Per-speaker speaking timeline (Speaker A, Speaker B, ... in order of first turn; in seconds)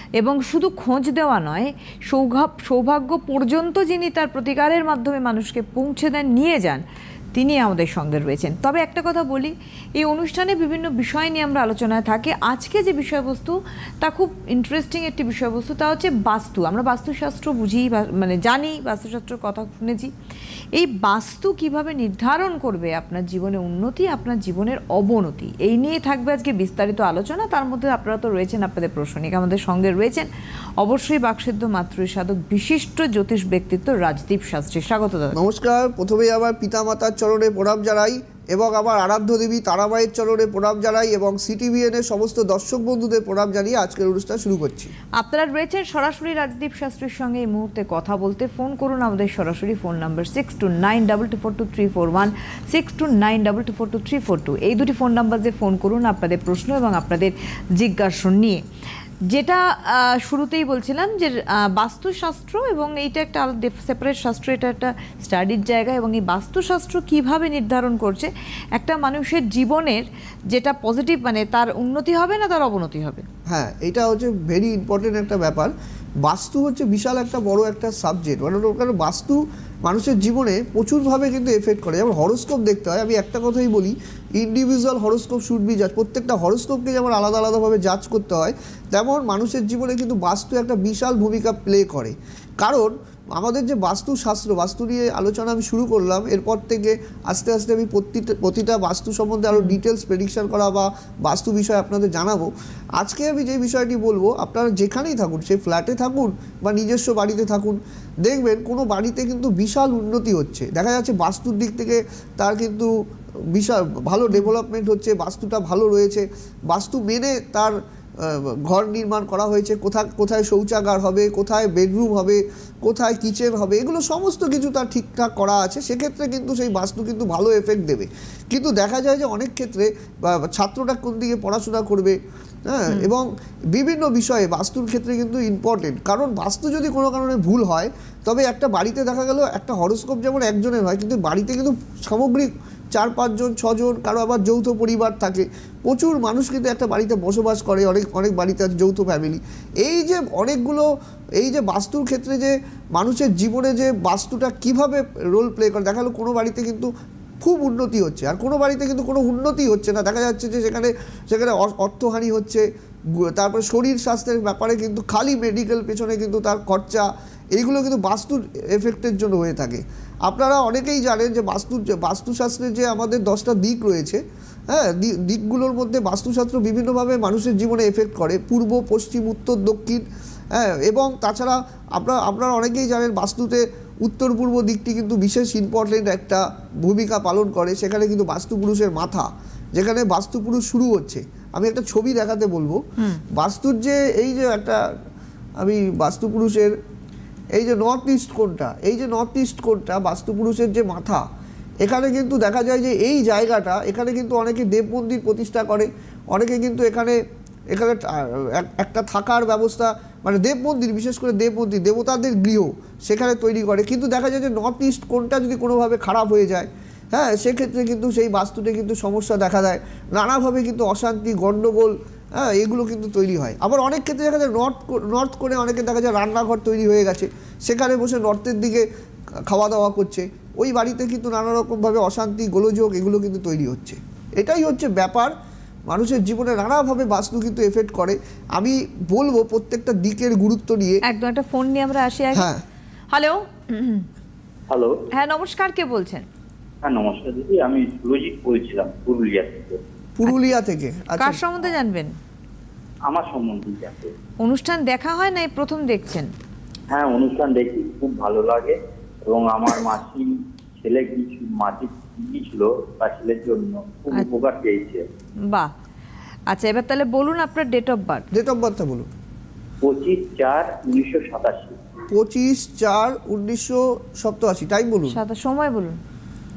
Speaker A: 0.2-6.8, 7.3-20.1, 20.8-30.3, 30.8-35.4, 45.2-58.6, 59.3-73.2, 193.0-193.2, 241.1-242.5, 243.1-244.1, 245.1-246.3, 251.2-252.2, 254.4-256.3, 266.5-268.3, 275.1-276.0
Speaker B: 35.3-44.9, 73.5-112.9, 113.5-150.9, 151.4-194.8, 195.6-196.8, 197.6-201.3, 201.8-228.9, 229.5-235.3, 235.9-241.0, 242.3-242.6, 250.2-251.4, 268.3-269.1, 272.1-275.2
Speaker C: 244.7-245.0, 246.8-249.8, 253.1-254.1, 256.9-265.0, 269.8-271.8